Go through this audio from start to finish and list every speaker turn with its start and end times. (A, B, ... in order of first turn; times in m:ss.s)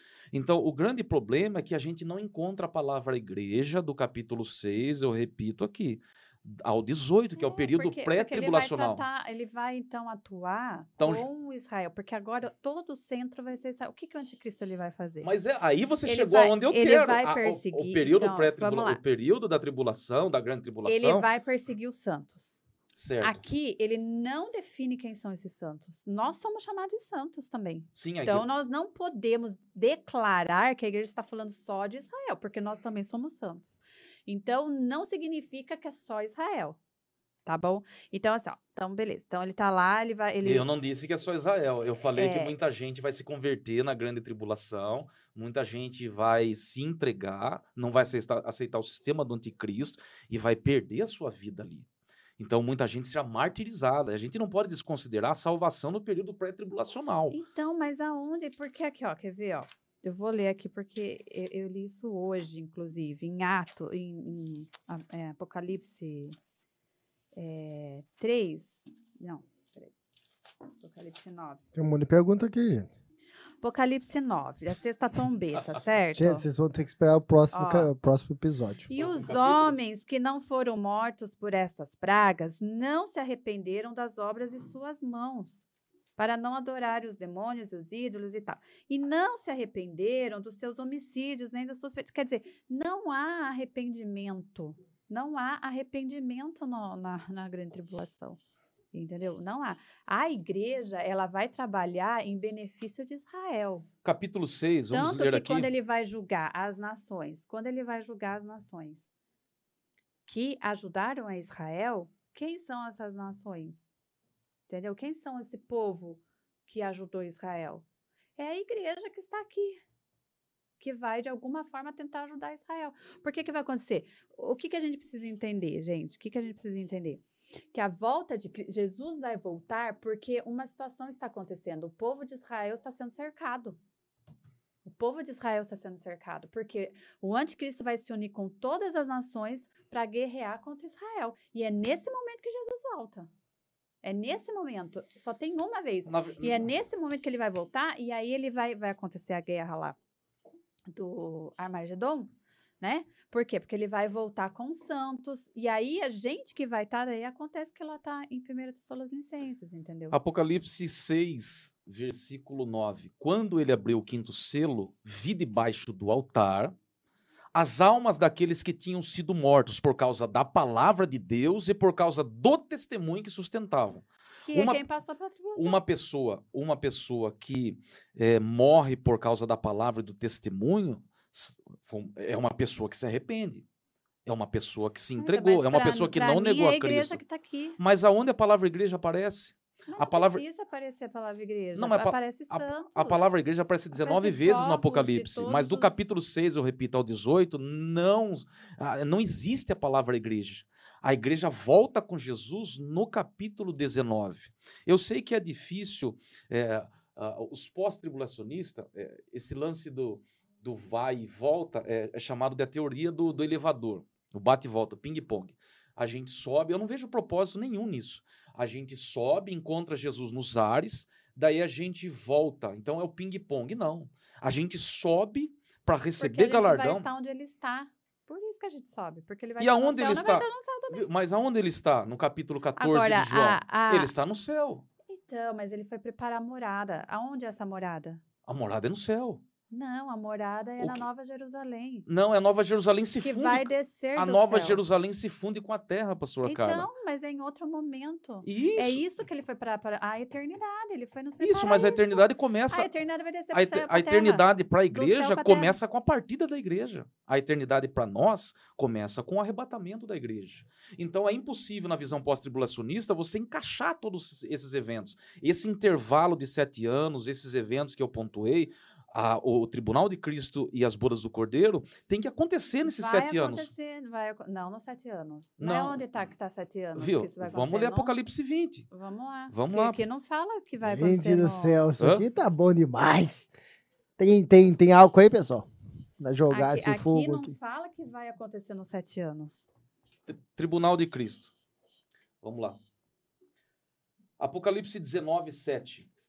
0:00.3-0:09.0 A
0:07.4-0:15.3 B
0:11.0-0:11.2 A
0:15.2-0:21.2 A
0:16.0-0:19.0 B
0:20.8-0:22.6 B
0:22.9-0:23.4 A
0:23.2-0:36.8 B
0:27.9-0:28.4 A
0:37.4-0:40.6 B
0:40.4-0:51.8 A
0:42.1-0:42.6 B
0:52.4-0:57.4 A
0:57.3-1:06.4 B
1:07.3-1:09.9 B
1:10.8-1:11.6 B
1:11.7-1:12.9 C
1:13.6-1:16.4 B
1:16.1-1:18.9 C
1:17.5-1:17.9 B
1:18.9-1:38.4 B
1:18.9-1:19.8 A
1:38.9-1:43.9 B
1:44.0-1:45.7 A
1:44.9-1:49.1 B
1:50.2-1:53.9 B
1:54.7-1:57.8 B
1:58.4-1:59.8 B
2:00.8-2:13.8 B
2:14.8-2:23.3 B
2:24.0-2:30.0 B
2:26.0-2:26.7 A
2:30.9-2:40.2 B
2:40.1-2:46.7 A
2:47.5-2:54.8 A
2:54.5-2:55.8 B
2:55.6-3:03.6 A
3:04.2-3:07.2 A
3:05.2-3:07.8 B
3:07.8-3:10.4 A
3:09.9-3:13.4 B
3:11.8-3:47.1 A
3:13.9-3:15.9 B
3:46.2-3:51.1 B
3:49.6-3:54.8 A
3:52.8-3:54.1 B
3:55.1-3:58.2 B
3:58.4-3:59.4 A
3:59.7-4:02.0 B
4:00.8-4:01.0 A
4:02.1-4:06.9 A
4:03.2-4:04.8 B
4:06.4-4:15.8 B
4:08.4-4:09.0 A
4:11.4-4:12.9 A
4:13.5-4:33.7 A
4:32.8-4:38.1 B
4:35.6-4:36.3 A
4:36.9-4:38.9 A
4:38.9-4:41.8 B
4:39.5-4:40.0 A
4:40.8-4:43.5 C
4:42.0-4:42.2 A
4:44.2-4:45.7 C
4:46.2-4:47.5 C
4:46.5-4:49.7 B
4:50.3-4:51.5 A
4:52.4-4:52.8 A
4:54.4-4:56.1 A